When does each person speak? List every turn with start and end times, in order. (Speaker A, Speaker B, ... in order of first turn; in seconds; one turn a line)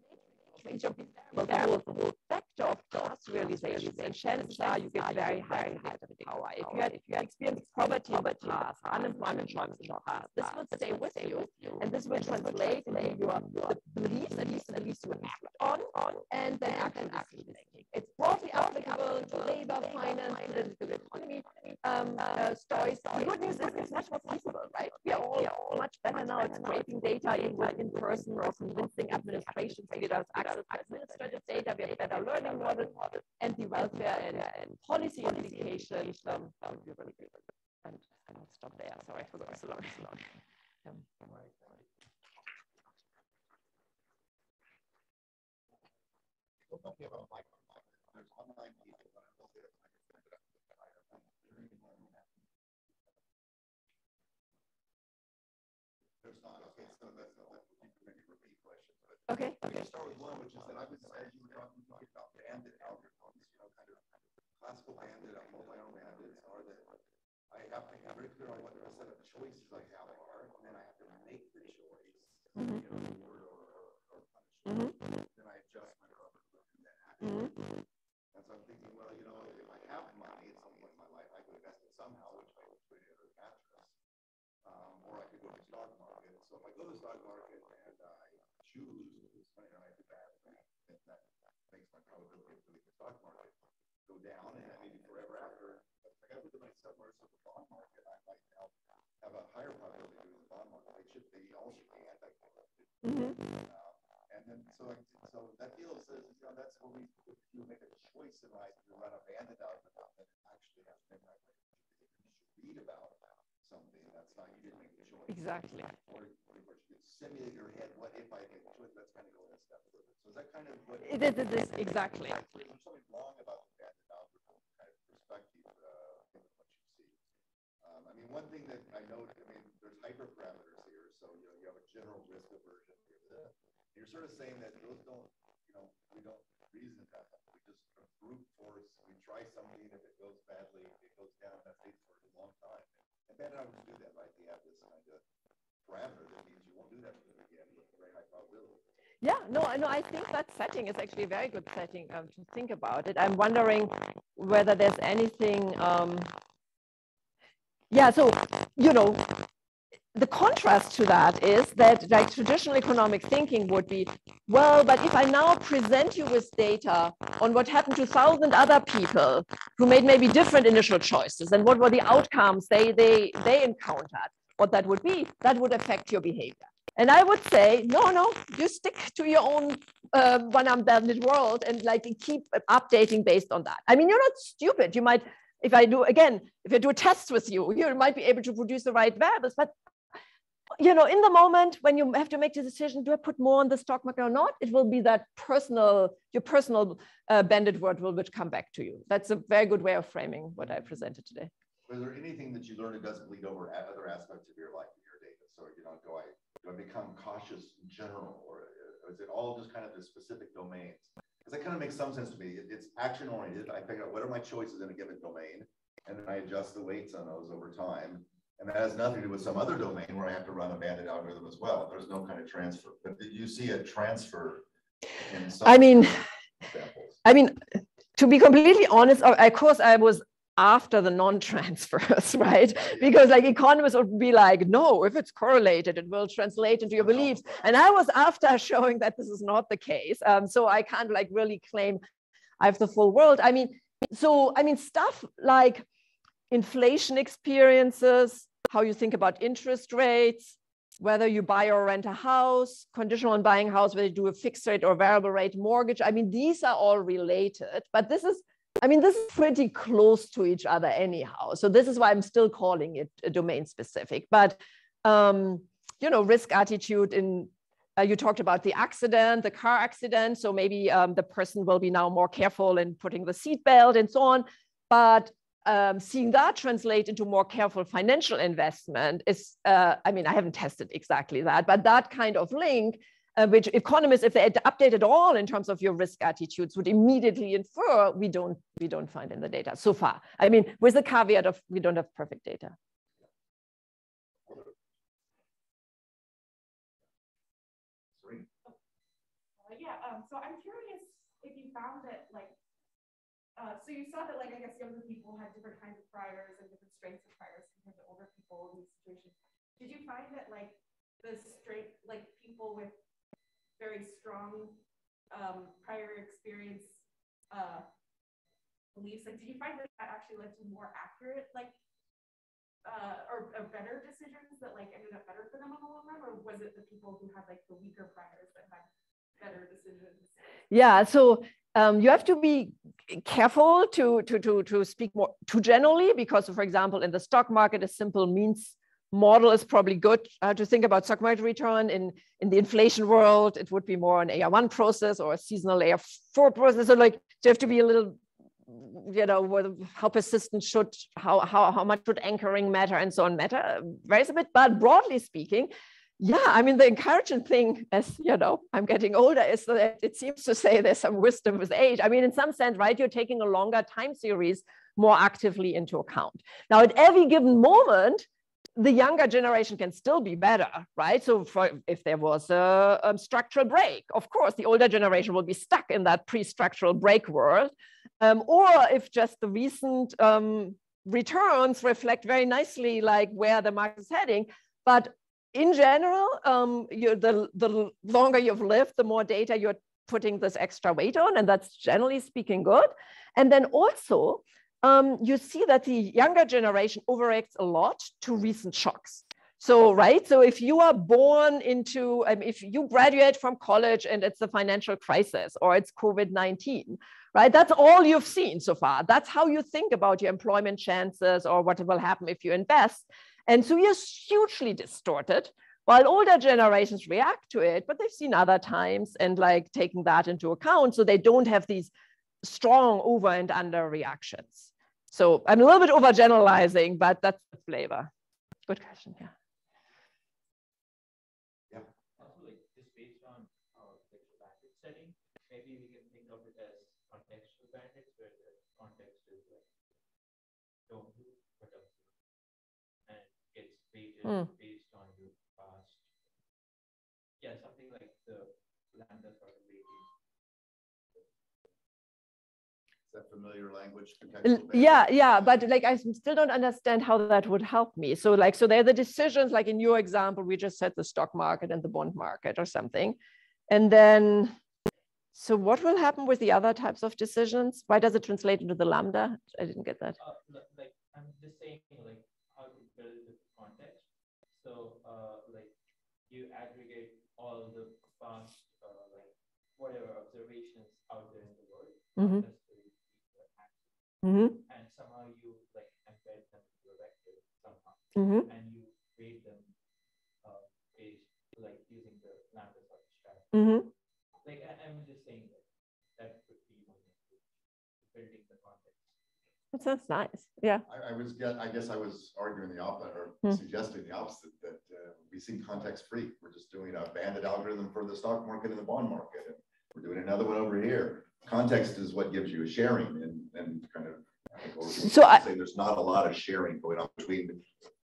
Speaker A: 0.5-37.3
Speaker A: 37.9-40.2
Speaker B: 46.6-52.4
Speaker B: 56.2-66.9
Speaker A: 59.3-59.6
Speaker B: 67.5-77.8
Speaker A: 77.2-77.5
Speaker B: 78.3-84.0
Speaker B: 84.6-127.2
Speaker A: 103.0-103.4
Speaker A: 115.3-115.9
Speaker A: 121.0-122.4
Speaker B: 127.8-145.2
Speaker B: 145.8-148.8
Speaker A: 149.2-156.3
Speaker A: 157.9-159.3
Speaker A: 160.2-189.7
Speaker A: 190.8-201.5
Speaker B: 201.9-224.7
Speaker B: 225.2-227.2
Speaker A: 225.6-226.2
Speaker A: 227.2-227.6
Speaker A: 228.2-242.0
Speaker B: 237.0-237.6
Speaker A: 242.6-245.8
Speaker A: 246.5-292.8
Speaker B: 298.2-298.5
Speaker C: 299.6-302.6
Speaker C: 303.6-312.9
Speaker C: 313.8-314.8
Speaker C: 315.3-317.9
Speaker C: 318.9-321.7
Speaker C: 322.9-330.3
Speaker A: 330.7-368.2
Speaker A: 368.8-421.9
Speaker A: 422.4-428.1
Speaker A: 428.7-429.3
Speaker D: 432.2-439.8
Speaker D: 440.9-442.1
Speaker D: 443.1-446.1
Speaker A: 444.2-444.5
Speaker D: 447.4-450.1
Speaker B: 453.1-455.6
Speaker A: 454.4-463.2
Speaker A: 463.7-464.5
Speaker A: 465.3-470.2
Speaker D: 470.2-475.8
Speaker D: 476.3-489.7
Speaker A: 482.2-482.5
Speaker A: 484.2-484.6
Speaker A: 488.2-488.5
Speaker D: 490.4-499.2
Speaker A: 493.5-493.9
Speaker A: 499.7-500.8
Speaker B: 500.9-517.7
Speaker A: 515.0-515.4